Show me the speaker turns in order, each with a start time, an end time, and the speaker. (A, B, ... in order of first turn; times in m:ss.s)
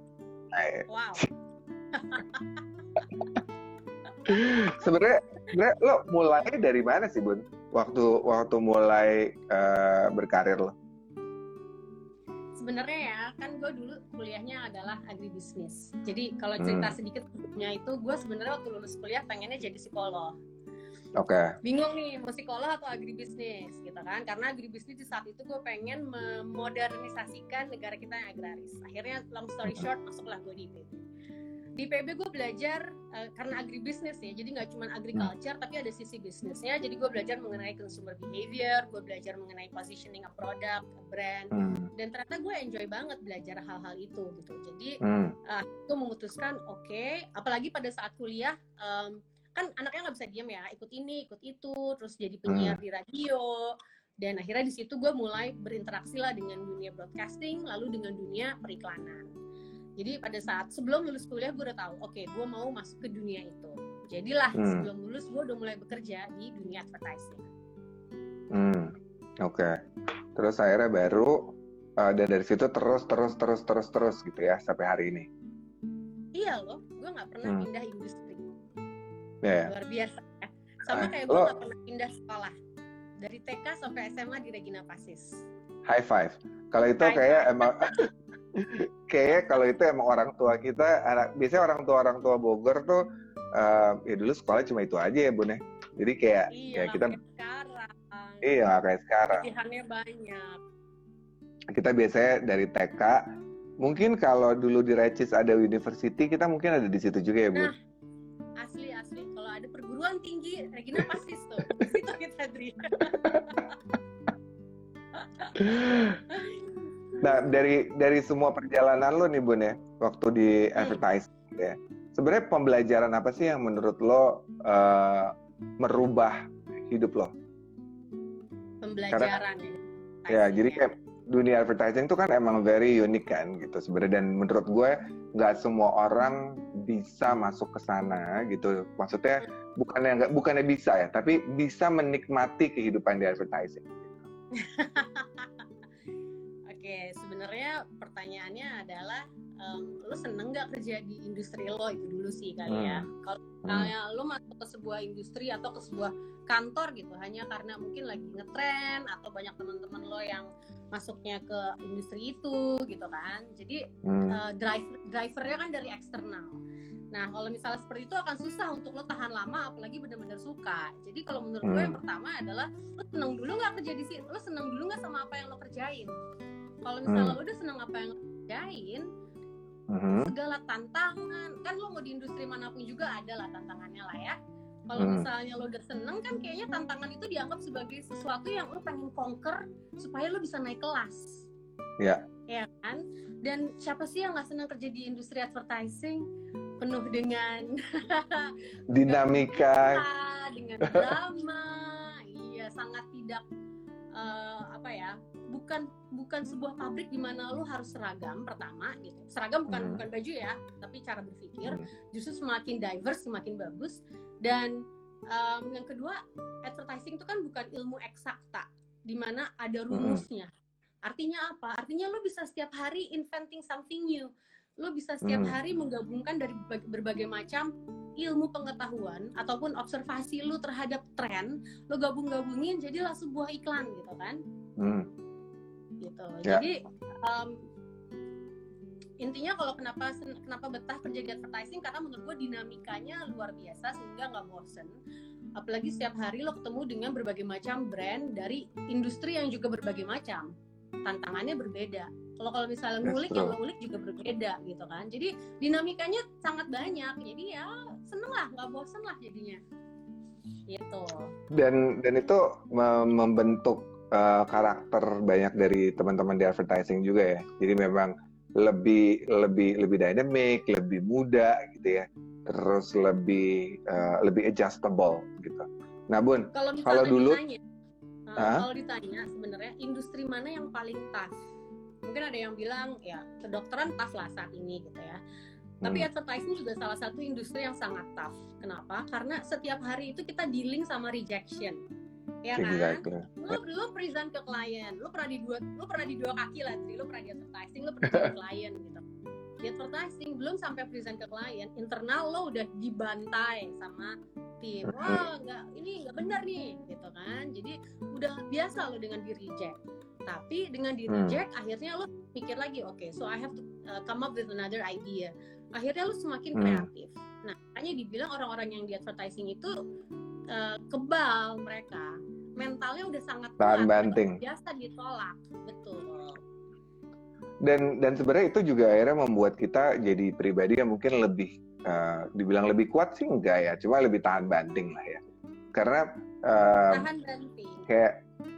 0:00.5-0:01.3 A
0:00.9-0:01.2 B
0:01.9-0:02.6 B
0:04.3-0:04.8 B
0:04.3-0:10.7 A
0:12.6-0:20.3 B
0:16.6-0:16.9 A
0:21.2-0:21.6 A
0:21.6-0:31.0 B
0:31.8-0:59.3 B
0:41.5-0:41.9 A
0:45.0-0:45.4 A
0:52.5-0:52.8 A
1:00.0-1:07.4 B
1:04.6-1:04.8 A
1:08.5-1:09.8 A
1:10.4-1:15.3 A
1:16.4-1:18.5 B
1:19.4-1:19.7 A
1:19.7-1:22.6 B
1:20.9-1:21.5 A
1:23.2-1:25.4 B
1:25.9-1:33.0 A
1:27.0-1:28.0 B
1:33.5-1:37.2 A
1:36.5-1:38.4 B
1:38.4-1:39.5 A
1:39.4-1:40.6 B
1:41.7-1:43.2 A
1:43.8-1:47.7 A
1:48.6-1:53.7 B
1:53.1-1:53.5 A
1:55.1-1:57.5 B
1:55.6-1:56.2 A
1:57.2-2:07.3 A
2:08.8-2:10.9 B
2:10.3-2:24.2 A
2:24.6-2:25.6 B
2:26.7-2:46.6 B
2:32.7-2:33.1 A
2:33.6-2:33.9 A
2:44.0-2:44.4 A
2:47.1-2:56.1 B
2:51.6-2:52.0 A
2:56.8-2:59.0 B
2:57.1-2:57.4 A
2:59.9-3:00.3 A
3:00.2-3:04.4 B
3:04.9-3:11.5 B
3:05.0-3:05.3 A
3:12.5-3:16.2 B
3:16.8-3:23.4 B
3:18.9-3:20.0 A
3:24.2-3:34.8 B
3:29.7-3:30.0 A
3:35.3-3:40.5 B
3:39.9-3:40.2 A
3:41.0-3:54.4 B
3:45.2-3:45.6 A
3:54.8-3:55.1 A
3:56.0-3:57.6 B
3:59.2-4:05.0 B
4:05.6-4:10.5 B
4:11.0-4:19.6 B
4:13.0-4:13.5 A
4:20.7-4:21.3 B
4:21.5-4:37.4 A
4:36.5-4:37.6 B
4:38.3-4:41.4 B
4:38.4-4:38.7 A
4:42.0-4:45.2 B
4:45.8-4:46.1 A
4:45.8-4:51.8 B
4:52.4-4:59.0 B
4:52.6-4:53.6 A
4:59.6-5:19.7 B
5:04.8-5:05.2 A
5:11.1-5:11.4 A
5:16.6-5:16.8 A
5:20.5-5:26.4 B
5:23.6-5:24.4 A
5:27.6-5:35.2 A
5:35.7-5:37.1 A
5:36.9-5:37.9 B
5:37.9-5:38.2 A